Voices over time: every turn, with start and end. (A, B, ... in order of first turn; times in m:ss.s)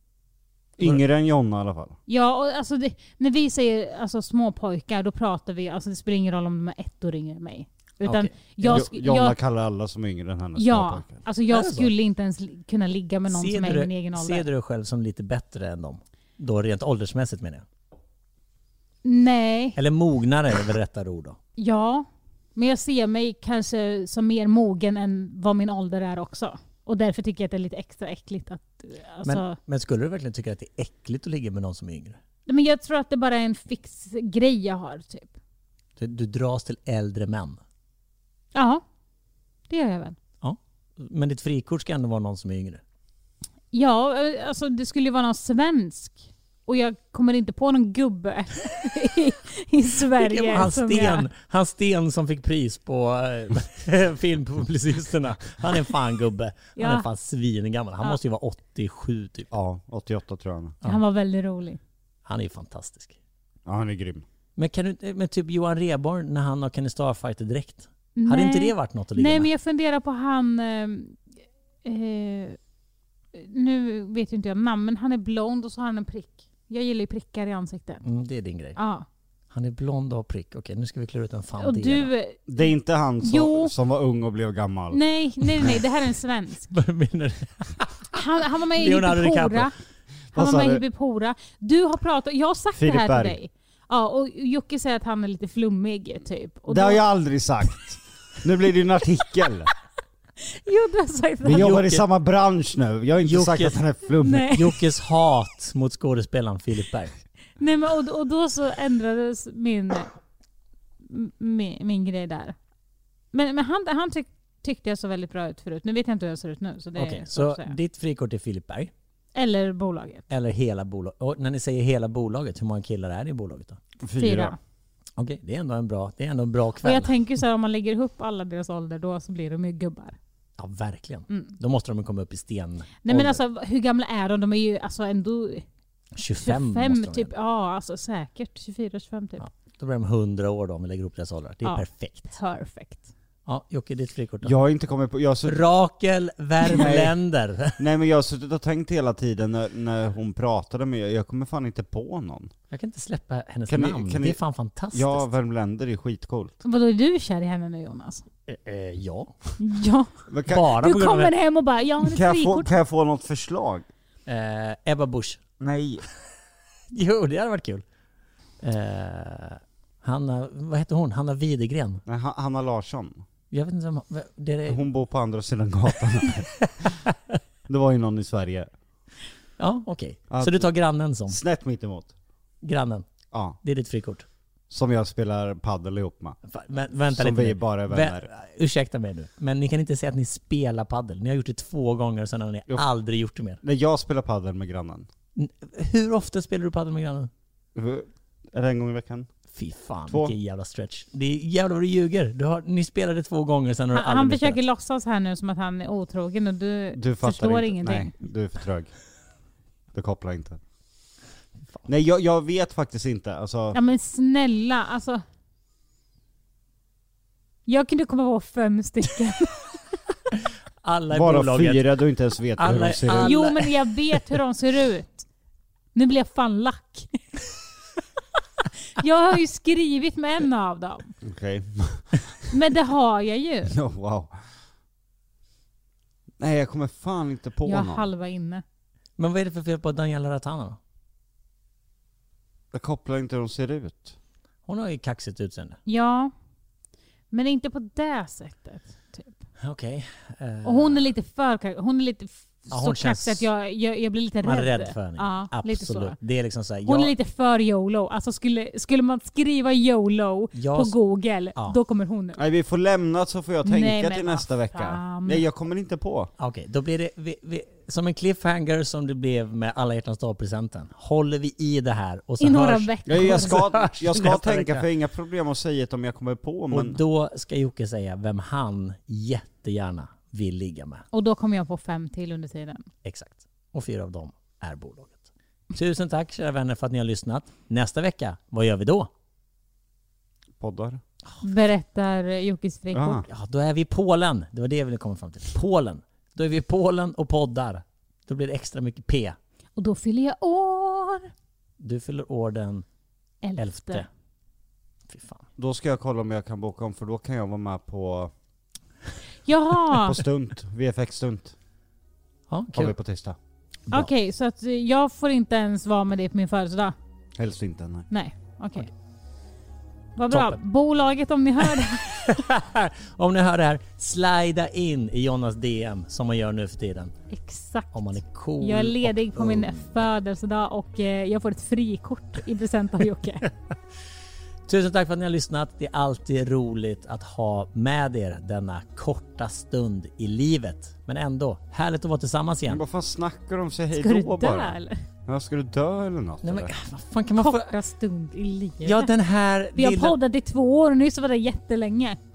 0:00.8-0:02.0 A
0:02.1-0:09.4 B
0:08.0-0:08.8 C
0:08.7-0:11.2 A
0:10.6-0:14.5 B
0:11.5-0:11.9 C
0:13.3-0:17.7 C
0:19.0-0:19.8 B
0:19.8-0:21.4 C
0:21.6-0:29.6 B
0:29.2-0:32.2 C
0:32.5-0:35.3 B
0:36.0-0:37.6 C
0:38.5-0:38.8 B
0:39.7-0:40.2 B
0:40.4-0:42.8 C
0:43.7-0:51.3 B
0:50.1-0:59.5 C
0:56.8-0:57.1 B
0:59.5-1:00.8 A
1:00.8-1:01.8 B
1:02.2-1:03.2 C
1:03.7-1:04.2 A
1:04.6-1:09.5 C
1:08.2-1:11.2 B
1:11.8-1:12.6 B
1:13.3-1:18.0 B
1:18.0-1:18.8 C
1:18.8-1:19.1 B
1:19.5-1:22.1 C
1:21.6-1:22.7 B
1:22.5-1:25.0 A
1:23.2-1:23.7 B
1:24.9-1:26.7 B
1:26.7-1:28.1 C
1:28.1-1:29.7 B
1:28.8-1:29.7 C
1:30.3-1:30.8 A
1:30.4-1:37.0 B
1:32.8-1:33.4 A
1:36.7-1:39.7 A
1:40.4-1:41.7 B
1:41.4-1:44.6 A
1:41.6-1:42.0 C
1:43.2-1:43.8 C
1:44.2-1:44.8 B
1:44.5-1:47.2 C
1:47.6-1:50.1 B
1:51.0-1:52.6 B
1:53.3-1:57.8 B
1:57.0-1:58.9 C
1:59.4-2:00.2 B
2:00.3-2:03.8 C
2:04.0-2:04.6 A
2:04.2-2:04.6 B
2:05.2-2:07.1 C
2:06.8-2:10.2 B
2:10.6-2:13.4 C
2:13.0-2:15.7 B
2:16.2-2:17.3 C
2:16.4-2:19.4 B
2:19.4-2:22.4 C
2:21.6-2:23.1 B
2:23.5-2:24.6 C
2:24.4-2:25.6 A
2:25.5-2:27.8 C
2:26.7-2:27.2 A
2:27.8-2:32.5 A
2:32.7-2:35.3 C
2:33.7-2:34.4 A
2:34.9-2:36.6 A
2:36.6-2:38.2 B
2:38.5-2:39.5 C
2:39.6-2:42.7 B
2:40.3-2:40.7 A
2:40.5-2:41.3 C
2:42.0-2:43.9 A
2:44.3-2:45.4 C
2:45.6-2:46.0 A
2:46.9-2:47.8 C
2:48.6-2:52.0 C
2:52.1-2:53.2 A
2:53.5-2:54.8 C
2:54.7-2:57.0 A
2:57.7-2:58.7 A
2:59.6-3:01.4 C
3:00.3-3:00.7 A
3:01.3-3:02.1 A
3:02.6-3:03.1 C
3:03.3-3:03.6 A
3:03.6-3:04.3 C
3:04.7-3:06.4 A
3:06.5-3:13.6 C
3:07.1-3:08.3 A
3:13.6-3:15.1 A
3:15.4-3:17.3 C
3:17.8-3:19.3 A
3:19.5-3:24.6 C
3:20.1-3:20.3 A
3:23.9-3:28.1 B
3:27.0-3:28.9 A
3:29.9-3:30.6 A
3:31.9-3:33.8 A
3:33.7-3:35.2 B
3:37.7-3:39.7 B
3:40.8-3:41.9 C
3:41.1-3:43.5 A
3:42.6-3:44.2 C
3:43.2-3:45.3 B
3:45.9-3:47.2 B
3:48.9-3:51.1 B
3:51.2-3:52.5 A
3:52.5-3:53.7 B
3:53.7-3:54.4 A
3:56.4-3:58.1 A
3:57.7-3:58.6 B
3:59.2-4:00.8 C
4:02.7-4:04.2 A
4:04.7-4:05.8 C
4:05.9-4:06.3 B
4:07.3-4:09.4 B
4:09.6-4:11.1 C
4:10.6-4:16.2 B
4:12.7-4:13.5 C
4:14.4-4:17.1 C
4:16.8-4:22.4 B
4:20.5-4:21.0 C
4:22.4-4:26.3 A
4:23.6-4:25.4 B
4:26.4-4:34.9 C
4:32.4-4:33.6 B
4:33.1-4:37.0 A
4:36.7-4:41.0 C
4:41.1-4:42.9 B
4:43.0-4:49.1 C
4:50.6-4:51.0 A
4:51.4-4:53.2 B
4:52.9-4:53.2 A
4:53.2-4:59.4 C
4:59.8-5:01.3 B
5:01.8-5:02.8 C
5:03.4-5:04.1 B
5:03.6-5:04.1 C
5:05.1-5:05.4 C
5:05.6-5:08.3 A
5:09.4-5:10.2 B
5:10.0-5:11.6 A
5:12.5-5:13.0 C
5:12.7-5:13.4 A
5:13.9-5:17.0 B
5:17.4-5:18.1 A
5:18.1-5:18.9 B
5:20.2-5:22.4 B
5:20.3-5:20.6 C
5:22.1-5:27.1 C
5:27.3-5:33.5 B
5:27.9-5:30.0 C
5:34.7-5:42.8 C
5:42.7-5:46.7 A
5:43.9-5:45.0 B
5:46.4-5:47.7 C
5:47.4-5:49.1 B
5:48.8-5:50.2 C
5:49.8-5:52.2 B